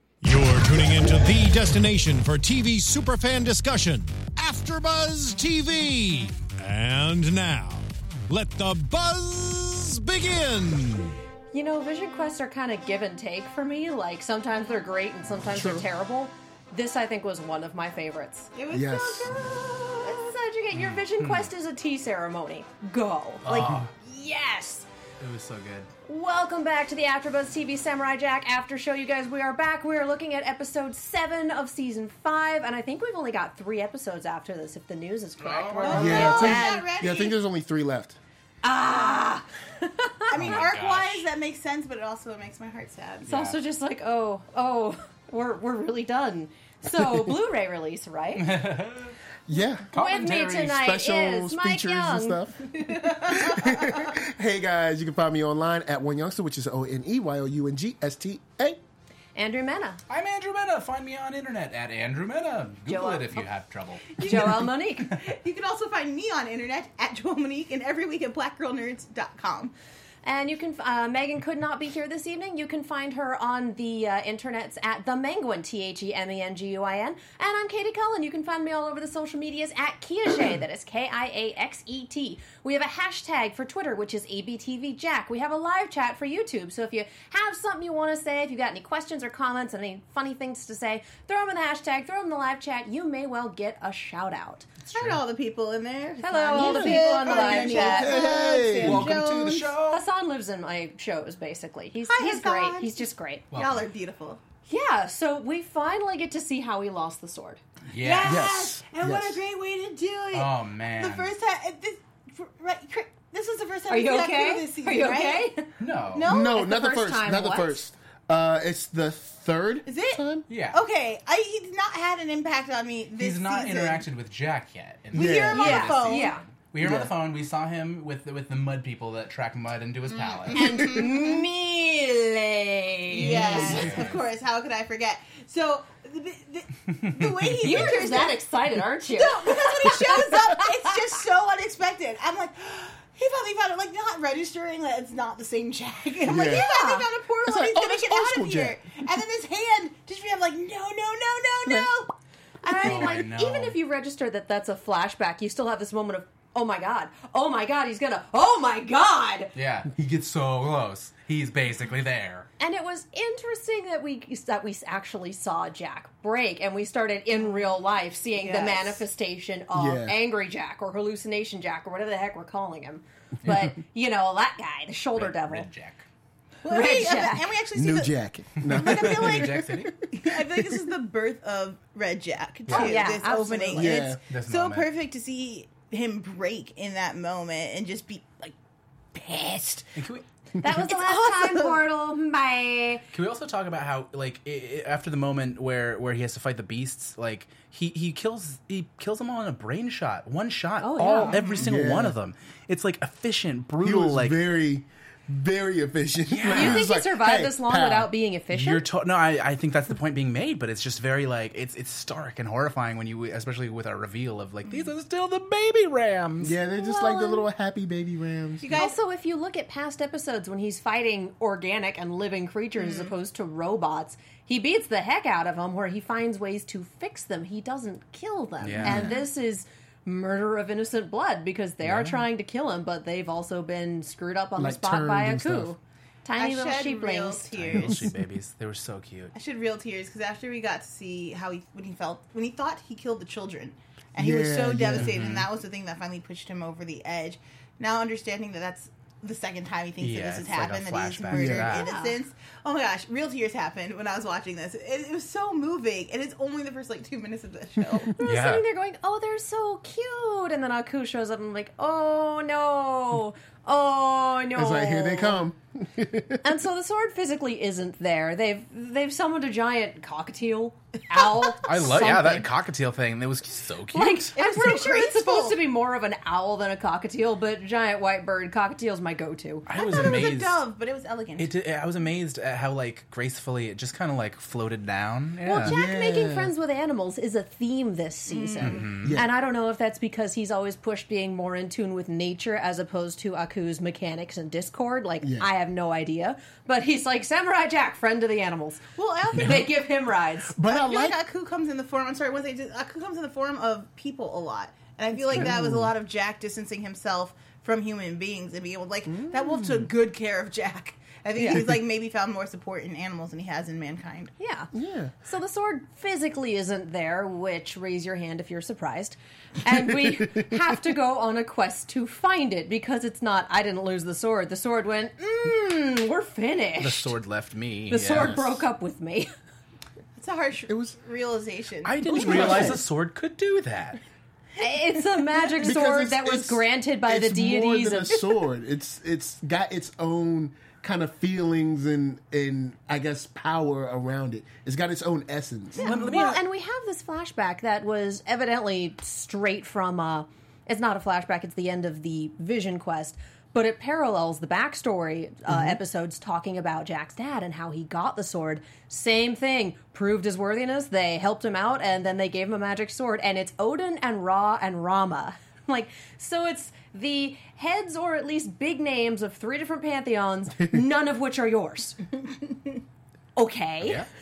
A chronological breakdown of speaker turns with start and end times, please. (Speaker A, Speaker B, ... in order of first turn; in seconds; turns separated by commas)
Speaker A: 0.2-11.2, Speaker B: 11.5-18.5, Speaker C: 15.5-15.9, Speaker D: 18.6-20.2, Speaker C: 18.7-19.4, Speaker B: 20.0-24.9, Speaker E: 20.7-21.5, Speaker E: 23.4-23.9, Speaker C: 23.5-23.9, Speaker E: 25.2-25.9, Speaker B: 26.1-36.9, Speaker E: 35.4-36.6, Speaker D: 35.8-37.3, Speaker C: 36.0-38.2, Speaker B: 38.6-40.6, Speaker D: 40.3-43.3, Speaker E: 40.3-41.3, Speaker E: 43.3-43.6, Speaker B: 43.3-48.6, Speaker C: 46.9-47.3, Speaker E: 48.4-49.1, Speaker C: 49.5-49.9, Speaker E: 49.9-50.8, Speaker B: 49.9-52.4, Speaker C: 50.5-58.8, Speaker D: 52.9-54.1, Speaker B: 59.4-60.0, Speaker E: 60.1-64.4, Speaker B: 62.9-63.5, Speaker B: 64.2-65.2, Speaker D: 64.2-69.7, Speaker B: 70.2-94.7, Speaker E: 94.8-95.2, Speaker D: 94.9-99.7, Speaker B: 96.2-98.2, Speaker C: 96.6-99.5, Speaker E: 97.3-97.6, Speaker E: 98.8-100.0, Speaker B: 99.9-103.5, Speaker D: 102.1-104.4, Speaker E: 103.5-103.9, Speaker B: 104.7-107.6, Speaker E: 107.9-108.5, Speaker D: 108.0-115.5, Speaker C: 108.2-109.4, Speaker E: 110.3-111.3, Speaker B: 113.9-115.7, Speaker E: 115.8-116.3, Speaker D: 116.1-116.6, Speaker C: 116.2-120.4, Speaker B: 116.3-117.8, Speaker D: 119.9-124.0, Speaker E: 120.5-120.8, Speaker E: 123.2-131.0, Speaker C: 125.1-125.7, Speaker D: 125.1-126.3, Speaker B: 125.5-126.4, Speaker C: 126.8-127.1, Speaker D: 130.1-131.4, Speaker B: 130.5-133.9, Speaker E: 133.1-134.2, Speaker D: 133.2-138.4, Speaker E: 137.2-137.9, Speaker B: 137.6-141.1, Speaker D: 139.1-152.1, Speaker C: 146.2-146.7, Speaker B: 146.4-147.1, Speaker C: 147.5-148.8, Speaker B: 152.6-159.6, Speaker E: 152.8-153.8, Speaker D: 152.8-153.2, Speaker E: 159.6-162.5, Speaker B: 162.6-175.7, Speaker D: 168.4-169.0, Speaker C: 169.8-170.2, Speaker E: 175.2-176.0, Speaker D: 176.6-178.2, Speaker B: 176.7-177.5, Speaker C: 177.8-180.9, Speaker E: 178.6-180.0, Speaker D: 178.7-188.5, Speaker E: 182.7-183.0, Speaker B: 182.7-184.0, Speaker C: 183.8-184.2, Speaker E: 184.2-184.9, Speaker D: 189.1-189.9, Speaker E: 190.0-190.2, Speaker B: 190.6-193.0, Speaker D: 190.8-191.7, Speaker E: 193.1-204.4, Speaker B: 200.8-201.4, Speaker D: 201.2-201.6, Speaker C: 201.6-202.2, Speaker C: 203.8-208.1, Speaker E: 206.3-206.8, Speaker B: 206.5-208.8, Speaker E: 208.5-216.6, Speaker C: 216.4-218.7, Speaker B: 216.7-217.5, Speaker D: 218.6-218.9, Speaker B: 218.7-237.8, Speaker D: 222.8-223.1, Speaker E: 228.6-229.2, Speaker C: 228.8-229.2, Speaker E: 231.8-232.2, Speaker C: 234.6-235.7, Speaker D: 236.4-238.1, Speaker E: 237.5-239.3, Speaker D: 239.3-258.2, Speaker C: 244.2-245.2, Speaker E: 244.9-245.5, Speaker E: 250.0-251.9, Speaker C: 251.3-251.8, Speaker B: 251.8-252.2, Speaker B: 258.2-265.4, Speaker E: 258.2-258.6, Speaker C: 264.6-266.4, Speaker B: 266.4-272.5, Speaker E: 271.6-274.3, Speaker B: 273.9-279.8, Speaker D: 274.4-275.6, Speaker E: 279.7-280.6, Speaker D: 279.7-281.5, Speaker E: 281.4-285.8, Speaker B: 285.4-300.6, Speaker C: 285.6-286.5, Speaker D: 288.3-288.9, Speaker E: 288.6-289.2, Speaker C: 289.0-289.3, Speaker C: 295.2-295.5, Speaker D: 299.0-299.7, Speaker C: 300.5-301.2, Speaker D: 300.7-314.3, Speaker C: 305.3-305.9, Speaker C: 309.1-309.9, Speaker B: 314.4-314.7, Speaker C: 314.7-315.1, Speaker B: 315.2-327.1, Speaker E: 326.8-328.6, Speaker B: 327.9-329.3, Speaker D: 330.2-332.8, Speaker C: 330.7-331.0, Speaker E: 331.9-334.0, Speaker C: 332.1-332.8, Speaker B: 332.2-332.7, Speaker B: 334.6-338.2, Speaker C: 335.6-345.9, Speaker B: 345.8-372.0, Speaker D: 345.8-346.1, Speaker E: 345.8-346.4, Speaker C: 355.5-355.8, Speaker B: 373.4-374.0, Speaker E: 373.8-374.1